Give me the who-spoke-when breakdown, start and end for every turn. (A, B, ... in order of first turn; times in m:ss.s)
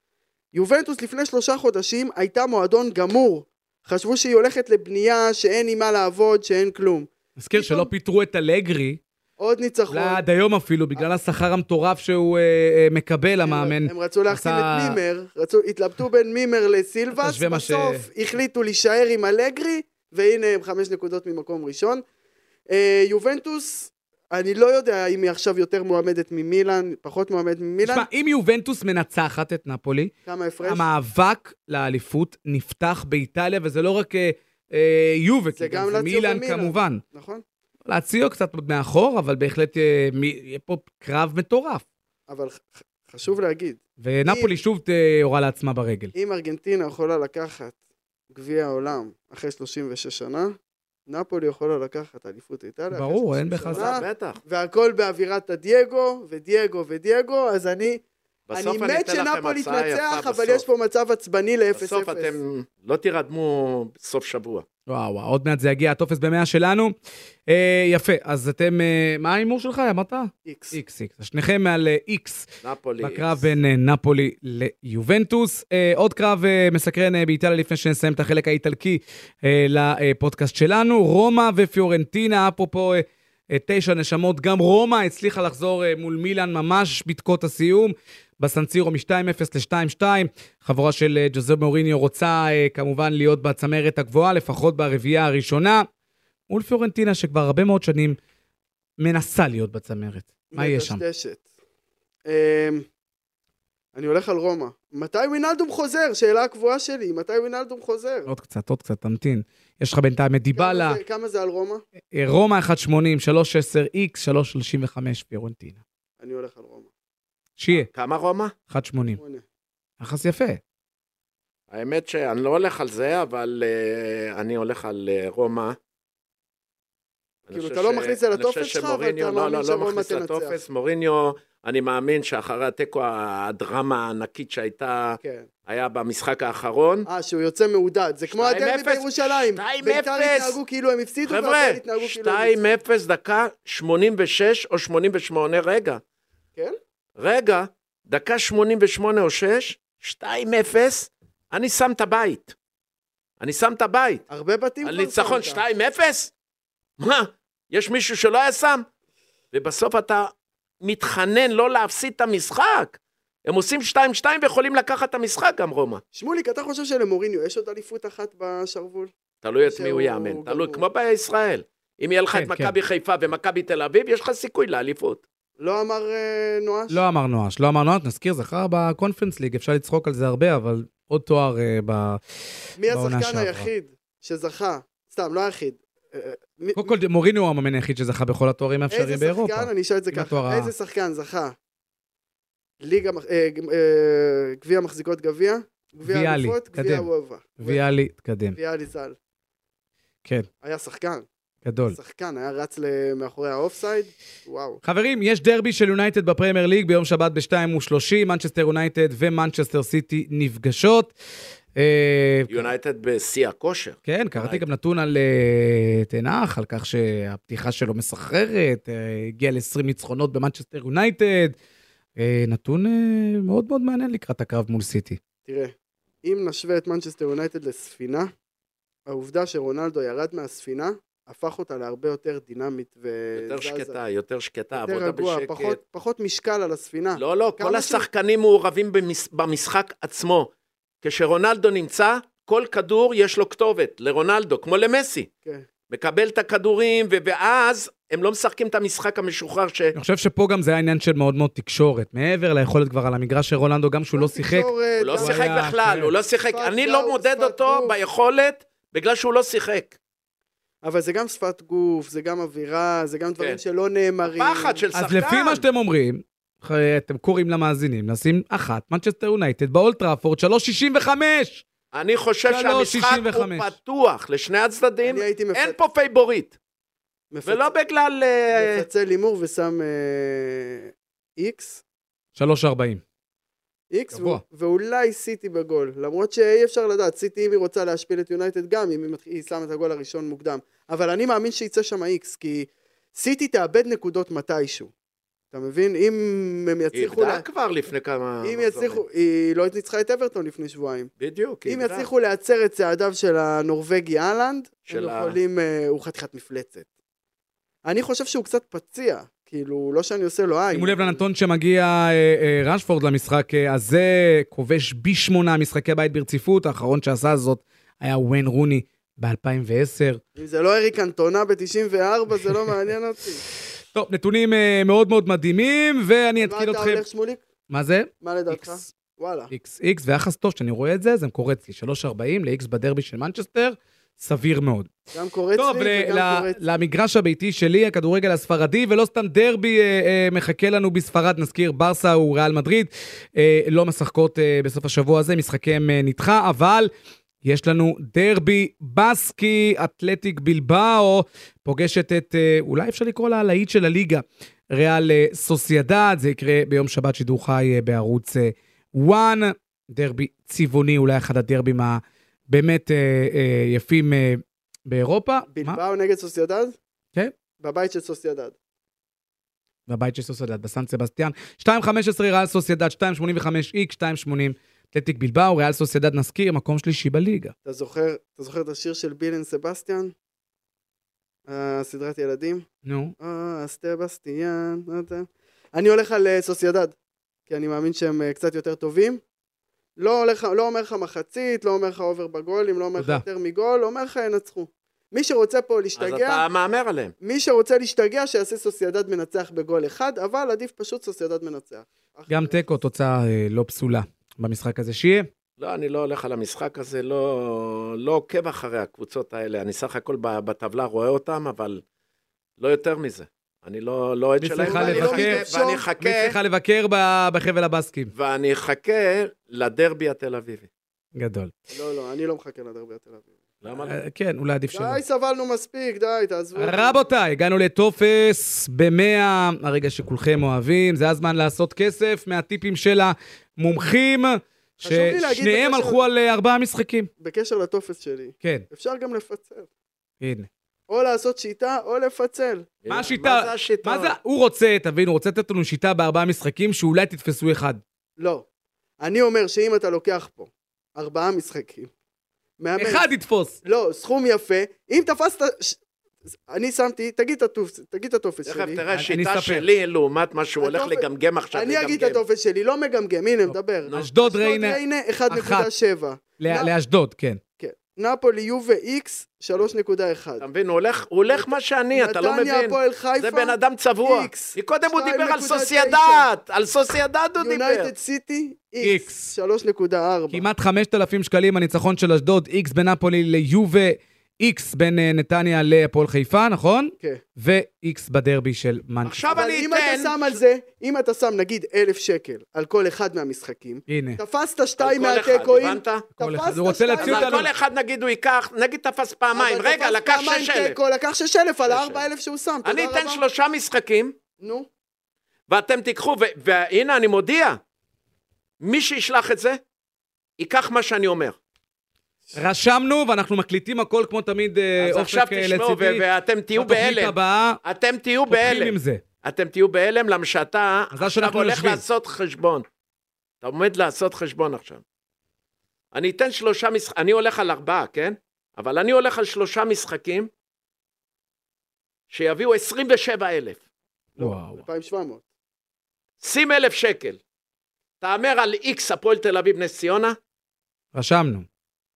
0:00.5-0:07.9 A
0:07.4-0:09.0 B
0:09.4-0:10.2 A
0:09.9-0:15.0 B
0:13.4-0:22.0 A
0:17.2-0:18.0 B
0:22.7-0:28.1 A
0:27.8-0:30.1 B
0:30.3-0:30.9 A
0:30.6-0:37.0 B
0:35.6-0:37.4 A
0:37.8-0:41.8 B
0:42.3-0:44.5 A
0:44.0-0:46.1 B
0:46.1-0:47.8 A
0:48.3-0:50.6 A
0:51.1-1:02.4 A
0:52.9-0:53.9 B
0:53.7-0:54.4 C
0:58.5-1:00.6 C
1:01.8-1:04.6 C
1:04.9-1:06.9 B
1:07.5-1:12.5 B
1:10.4-1:10.8 A
1:12.6-1:13.5 C
1:13.0-1:35.9 B
1:36.5-1:38.2 B
1:39.0-1:41.0 B
1:40.5-1:41.4 A
1:42.3-1:42.8 A
1:43.9-1:48.3 A
1:48.3-1:51.0 B
1:50.6-1:51.8 A
1:52.1-1:55.8 B
1:56.2-1:56.9 A
1:57.6-1:57.9 B
1:57.7-1:58.5 C
1:58.7-1:59.2 B
1:59.2-1:59.4 A
2:00.0-2:00.6 B
2:01.7-2:05.8 C
2:07.5-2:17.1 C
2:07.5-2:10.6 A
2:15.2-2:15.5 A
2:17.1-2:22.8 A
2:18.3-2:20.6 C
2:21.3-2:26.0 C
2:27.2-2:32.5 C
2:33.4-2:34.2 C
2:34.3-2:35.6 A
2:34.8-2:36.3 C
2:37.0-2:38.8 C
2:39.5-2:46.0 C
2:46.1-2:49.1 A
2:49.4-2:55.2 C
2:49.6-2:50.8 A
2:52.3-2:52.7 B
2:55.6-2:57.0 A
2:56.9-3:02.2 B
3:02.8-3:07.0 A
3:02.9-3:03.7 B
3:06.8-3:10.7 B
3:08.9-3:11.6 A
3:12.8-3:17.8 A
3:16.0-3:17.1 B
3:17.6-3:18.6 B
3:18.6-3:19.2 A
3:20.6-3:21.3 A
3:21.6-3:22.0 B
3:21.9-3:24.8 A
3:24.8-3:31.1 B
3:31.8-3:32.7 B
3:32.5-3:34.6 C
3:34.1-3:41.6 B
3:42.2-3:45.2 B
3:45.5-3:48.3 A
3:49.1-3:54.0 A
3:53.4-3:55.8 C
3:54.7-3:58.1 A
3:57.2-4:00.5 C
4:01.0-4:05.3 C
4:05.9-4:10.0 C
4:10.0-4:16.1 B
4:14.2-4:15.4 A
4:15.0-4:20.0 C
4:16.5-4:18.0 A
4:20.8-4:24.8 A
4:24.2-4:25.6 C
4:24.9-4:31.6 B
4:31.9-4:36.6 C
4:32.5-4:33.7 B
4:35.0-4:35.8 A
4:37.3-4:37.7 A
4:37.4-4:38.8 C
4:38.5-4:41.8 A
4:42.4-4:43.0 B
4:43.9-4:54.9 A
4:44.1-4:44.4 B
4:55.5-4:57.4 A
4:56.9-4:59.0 C
4:58.4-5:01.1 A
5:01.2-5:02.1 C
5:01.7-5:06.9 A
5:04.9-5:05.4 C
5:07.8-5:11.2 A
5:10.7-5:20.2 B
5:20.4-5:23.4 A
5:23.9-5:27.0 B
5:26.4-5:27.4 A
5:27.7-5:28.8 B
5:28.2-5:29.5 A
5:29.5-5:35.0 B
5:35.1-5:36.6 A
5:35.6-5:46.9 B
5:47.4-6:05.8 B
6:05.5-6:06.8 A
6:07.6-6:08.6 A
6:09.9-6:17.5 B
6:17.6-6:20.1 A
6:21.5-6:22.7 A
6:22.8-6:23.1 B
6:23.2-6:26.9 A
6:27.5-6:29.2 A
6:30.0-6:36.4 A
6:33.0-6:33.2 B
6:36.0-6:37.1 C
6:37.2-6:42.7 A
6:42.3-6:45.3 B
6:45.6-6:51.8 C
6:52.6-6:56.4 C
6:54.4-6:55.4 B
6:54.6-6:55.8 A
6:56.0-6:58.1 B
6:58.1-7:00.7 C
7:01.2-7:01.5 B
7:01.7-7:03.3 A
7:03.6-7:04.0 C
7:03.8-7:05.0 B
7:04.7-7:07.0 A
7:06.6-7:17.1 B
7:14.8-7:16.1 A
7:17.2-7:19.7 A
7:20.2-7:20.5 B
7:20.9-7:22.7 A
7:22.8-7:24.1 C
7:22.9-7:27.8 B
7:28.2-7:28.4 A
7:29.0-7:31.9 A
7:32.6-7:33.1 A
7:32.8-7:33.6 B
7:33.6-7:38.8 A
7:38.5-7:42.2 C
7:38.9-7:39.7 B
7:40.6-7:46.7 A
7:43.5-7:45.7 B
7:46.4-7:47.4 B
7:47.6-7:50.4 A
7:50.4-7:57.9 C
7:51.3-7:56.3 A
7:57.4-8:00.4 A
7:58.8-7:59.3 B
8:00.3-8:09.2 B
8:09.0-8:10.4 C
8:09.3-8:17.5 A
8:13.9-8:14.2 B
8:14.8-8:16.1 C
8:16.2-8:17.5 B
8:17.0-8:20.8 C
8:19.3-8:23.2 A
8:21.7-8:22.0 C
8:22.6-8:24.2 C
8:24.4-8:24.7 A
8:25.5-8:27.6 C
8:28.6-8:29.6 C
8:30.4-8:31.4 C
8:32.3-8:37.6 B
8:34.8-8:42.6 C
8:38.3-8:39.0 B
8:40.9-8:41.8 B
8:43.4-8:44.8 C
8:45.9-8:50.3 C
8:52.1-8:53.6 C
8:54.2-8:55.2 A
8:54.2-8:54.6 B
8:56.2-8:57.2 C
8:58.0-9:00.2 C
9:00.9-9:01.5 B